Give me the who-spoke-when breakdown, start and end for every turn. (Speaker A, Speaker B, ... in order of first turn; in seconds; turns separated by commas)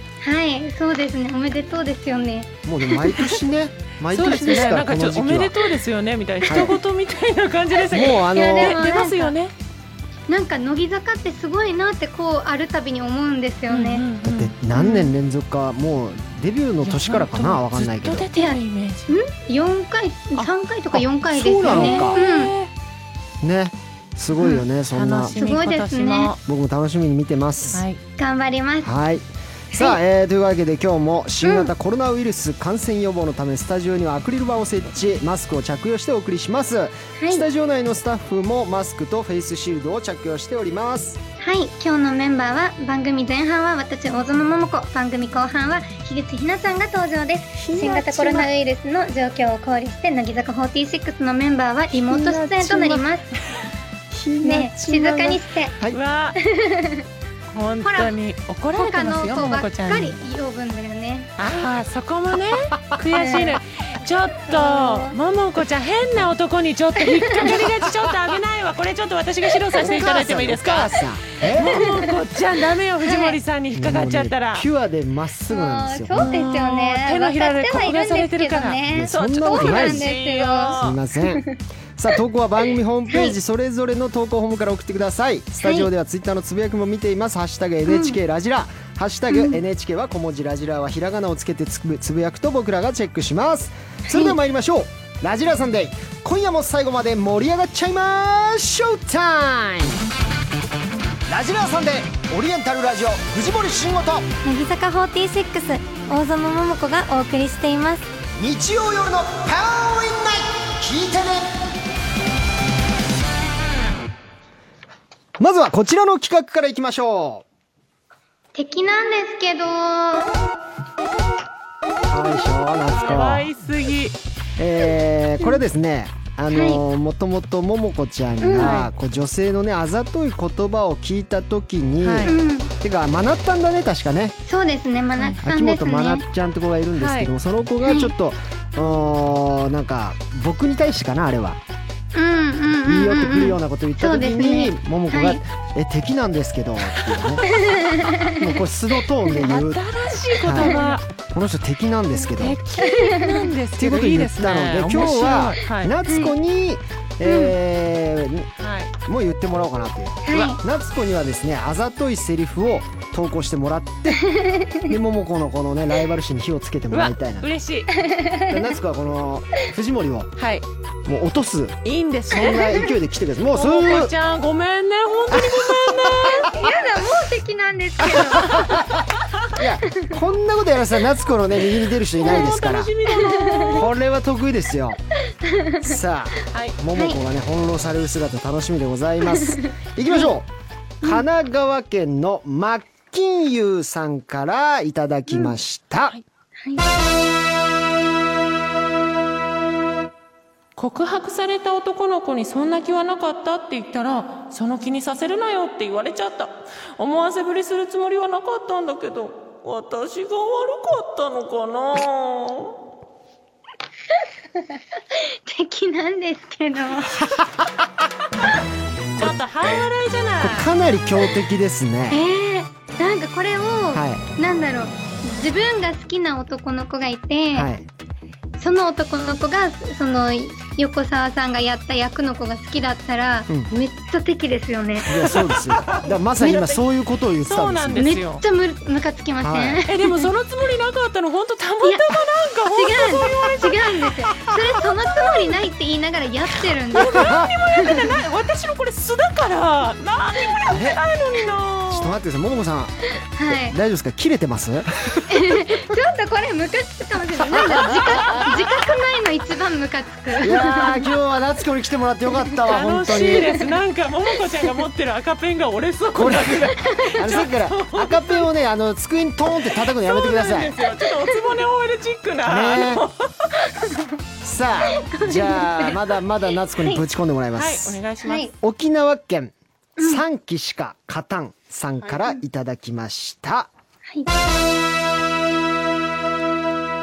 Speaker A: 0.2-2.5, Speaker B: 2.6-5.5, Speaker C: 3.1-3.3, Speaker C: 4.1-9.5, Speaker B: 6.5-6.7, Speaker B: 7.9-8.8, Speaker A: 8.3-9.3, Speaker A: 10.3-14.0, Speaker C: 13.7-15.1, Speaker B: 14.2-18.3, Speaker C: 16.8-19.1, Speaker A: 19.1-22.5, Speaker B: 20.9-22.2, Speaker C: 21.6-22.7, Speaker B: 23.4-25.4, Speaker C: 24.4-26.4, Speaker A: 25.3-26.3, Speaker B: 26.4-27.8, Speaker C: 27.7-28.0, Speaker A: 28.2-28.9, Speaker B: 28.8-41.2, Speaker A: 29.7-30.0, Speaker A: 31.4-31.7, Speaker A: 37.2-37.5, Speaker A: 41.4-53.3, Speaker B: 47.6-48.5, Speaker B: 51.9-53.0, Speaker B: 54.1-56.0, Speaker A: 54.4-55.7, Speaker C: 55.9-56.4, Speaker A: 56.4-57.1, Speaker C: 57.5-60.1, Speaker A: 57.8-58.1, Speaker A: 58.7-61.3, Speaker C: 61.4-74.7, Speaker A: 63.1-63.6, Speaker A: 64.5-65.2, Speaker A: 67.1-67.5, Speaker B: 69.8-71.9, Speaker A: 71.6-72.1, Speaker A: 73.0-73.4, Speaker B: 73.7-76.3, Speaker A: 75.5-81.5, Speaker C: 76.1-81.0, Speaker B: 78.9-80.1, Speaker B: 80.8-100.0, Speaker A: 83.1-83.4, Speaker A: 85.6-85.9, Speaker A: 87.8-88.2, Speaker A: 89.3-89.6, Speaker A: 94.1-94.4, Speaker B: 101.3-104.2, Speaker A: 104.4-108.1, Speaker B: 108.4-111.6, Speaker B: 115.4-117.4, Speaker A: 118.5-120.3, Speaker B: 122.1-123.5, Speaker C: 122.9-124.2, Speaker B: 124.6-134.3, Speaker A: 126.5-126.8, Speaker A: 128.4-128.8, Speaker C: 128.6-128.9, Speaker C: 132.0-132.3, Speaker A: 132.2-132.7, Speaker A: 134.4-136.2, Speaker B: 135.4-141.6, Speaker C: 136.9-137.3, Speaker A: 137.8-138.1, Speaker A: 142.1-145.4, Speaker B: 142.8-147.4, Speaker C: 146.9-147.3, Speaker A: 147.4-148.4, Speaker B: 148.4-149.8, Speaker C: 149.3-151.0, Speaker B: 150.4-150.8, Speaker A: 150.5-150.9, Speaker B: 151.3-152.6, Speaker C: 152.4-155.9, Speaker A: 152.8-153.5, Speaker B: 153.8-158.5, Speaker A: 156.1-156.3, Speaker A: 157.2-157.5, Speaker C: 158.6-158.9, Speaker B: 159.0-164.2, Speaker A: 160.2-160.6, Speaker A: 164.2-164.9, Speaker B: 164.8-167.5, Speaker C: 166.9-167.9, Speaker A: 167.9-168.7, Speaker B: 168.5-170.3, Speaker C: 170.4-170.6, Speaker B: 171.0-171.8, Speaker C: 171.8-172.7, Speaker B: 172.3-174.1, Speaker A: 172.5-172.8, Speaker C: 173.5-176.5, Speaker B: 175.3-176.7, Speaker A: 176.2-178.8, Speaker B: 178.0-178.8, Speaker B: 179.5-182.9, Speaker C: 182.2-183.9, Speaker A: 183.1-183.8, Speaker B: 183.7-185.0, Speaker A: 185.4-185.9, Speaker B: 185.8-190.5, Speaker C: 186.5-186.8, Speaker A: 186.9-187.2, Speaker A: 189.2-190.2, Speaker B: 191.0-196.2, Speaker C: 200.8-212.8, Speaker A: 214.6-217.3, Speaker C: 219.2-220.7, Speaker B: 220.4-222.2, Speaker A: 222.1-227.7, Speaker B: 223.9-224.2, Speaker B: 227.5-227.9, Speaker A: 228.6-235.1, Speaker B: 235.1-238.0, Speaker C: 235.2-236.8, Speaker C: 237.4-238.4, Speaker A: 237.9-240.2, Speaker B: 239.4-239.8, Speaker C: 239.9-244.2, Speaker A: 241.8-242.1, Speaker A: 242.7-248.2, Speaker C: 246.9-252.1, Speaker B: 247.1-247.5, Speaker B: 250.7-251.0, Speaker B: 251.9-252.9, Speaker A: 253.3-253.8, Speaker B: 253.5-255.7, Speaker A: 255.3-261.1, Speaker B: 257.5-258.4, Speaker C: 257.9-258.5, Speaker B: 260.4-263.6, Speaker C: 262.7-268.4, Speaker A: 263.1-263.6, Speaker B: 266.1-270.8, Speaker A: 266.8-267.2, Speaker C: 269.8-273.5, Speaker A: 271.0-271.5, Speaker B: 272.4-273.0, Speaker A: 273.7-274.1, Speaker B: 274.4-278.0, Speaker A: 274.8-276.0, Speaker C: 277.5-278.5, Speaker A: 278.2-278.5, Speaker B: 278.6-283.7, Speaker A: 280.0-280.2